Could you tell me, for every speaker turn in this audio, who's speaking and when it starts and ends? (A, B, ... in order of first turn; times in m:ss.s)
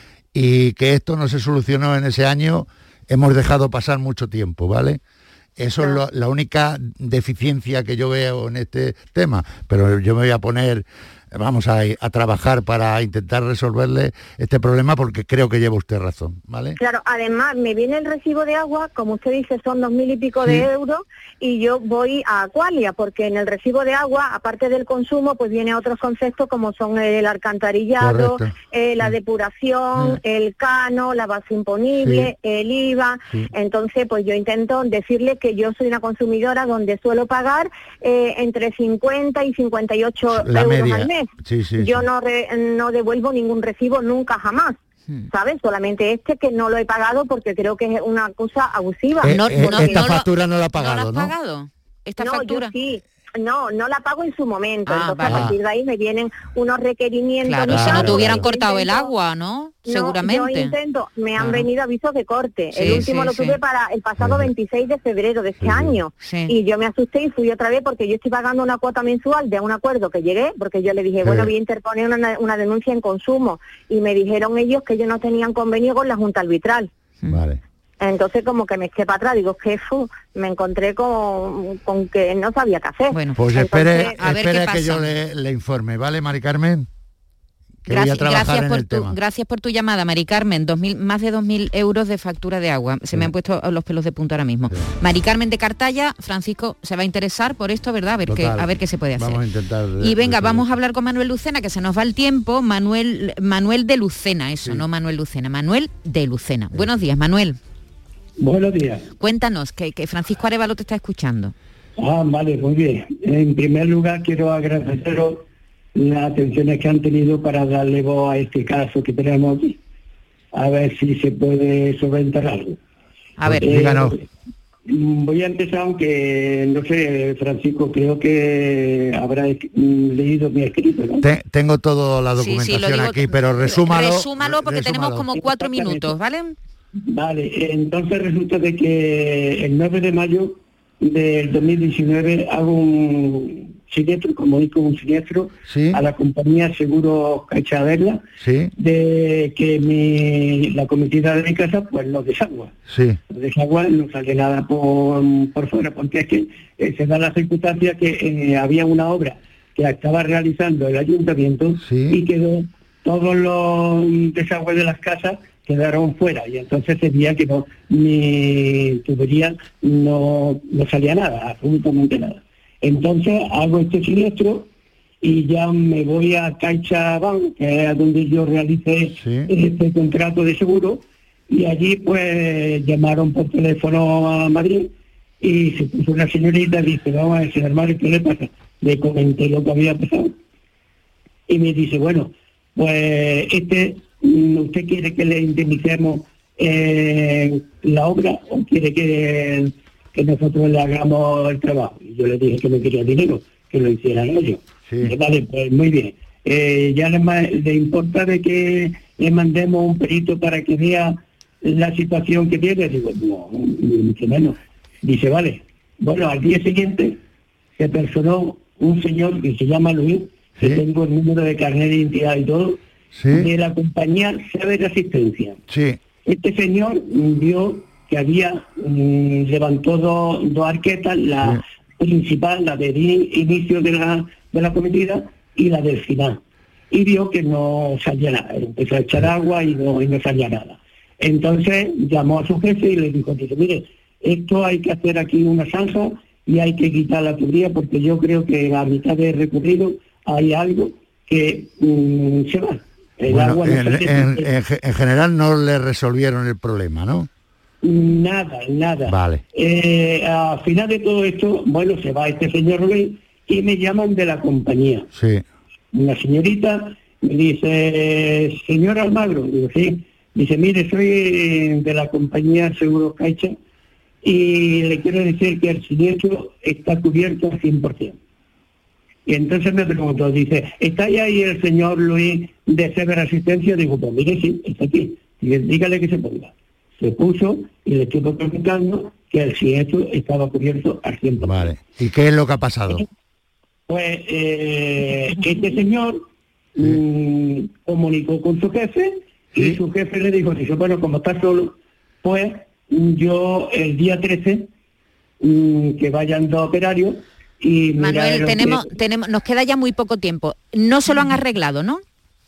0:00.3-0:05.0 A
0:05.6-0:16.8 A
0:16.8-0:41.3 B
0:20.4-0:20.7 A
0:28.0-0:29.1 A
0:32.0-0:32.3 A
0:40.3-0:42.1 A
0:41.8-0:44.8 B
0:45.3-0:49.9 B
0:49.2-0:51.3 A
0:49.2-0:52.7 C
0:52.2-0:59.1 B
0:54.9-0:55.6 C
0:55.2-0:55.6 A
0:57.4-1:00.8 C
0:57.7-0:58.5 A
0:59.9-1:16.9 B
1:01.4-1:01.7 C
1:02.7-1:03.6 C
1:02.8-1:03.1 A
1:04.2-1:04.5 A
1:05.6-1:06.0 A
1:06.2-1:06.5 C
1:11.2-1:11.5 A
1:17.3-1:17.6 A
1:18.0-1:24.1 B
1:23.1-1:25.1 C
1:23.4-1:26.9 A
1:27.8-1:29.2 A
1:27.9-1:39.4 C
1:38.3-1:40.7 A
1:40.0-1:47.6 C
1:48.4-1:49.1 D
1:49.2-1:51.5 C
1:52.0-1:59.8 D
2:00.5-2:02.8 D
2:03.4-2:03.8 C
2:03.5-2:04.2 A
2:03.6-2:04.2 D
2:04.9-2:11.2 D
2:11.2-2:15.3 A
2:12.4-2:16.6 C
2:15.3-2:16.1 D
2:17.1-2:28.2 D
2:25.6-2:26.0 A
2:28.4-2:28.7 A
2:28.8-2:32.8 D
2:32.9-2:33.2 A
2:33.3-2:54.7 D
2:41.8-2:42.2 A
2:55.2-3:10.3 D
2:59.1-2:59.5 A
3:11.5-3:37.2 D
3:24.9-3:25.2 A
3:37.8-3:42.8 D
3:40.6-3:40.8 A
3:43.1-3:43.5 A
3:43.3-3:45.6 D
3:45.7-3:46.0 A
3:46.2-4:14.5 D
4:13.3-4:17.3 A
4:17.8-4:25.1 D
4:19.1-4:19.4 A
4:25.1-4:25.4 A
4:25.9-4:33.6 D
4:34.2-4:38.2 D
4:39.3-4:51.8 D
4:51.4-4:53.1 A
4:53.9-4:56.3 D
4:56.8-5:04.7 D
5:05.4-5:08.9 D
5:08.0-5:12.0 C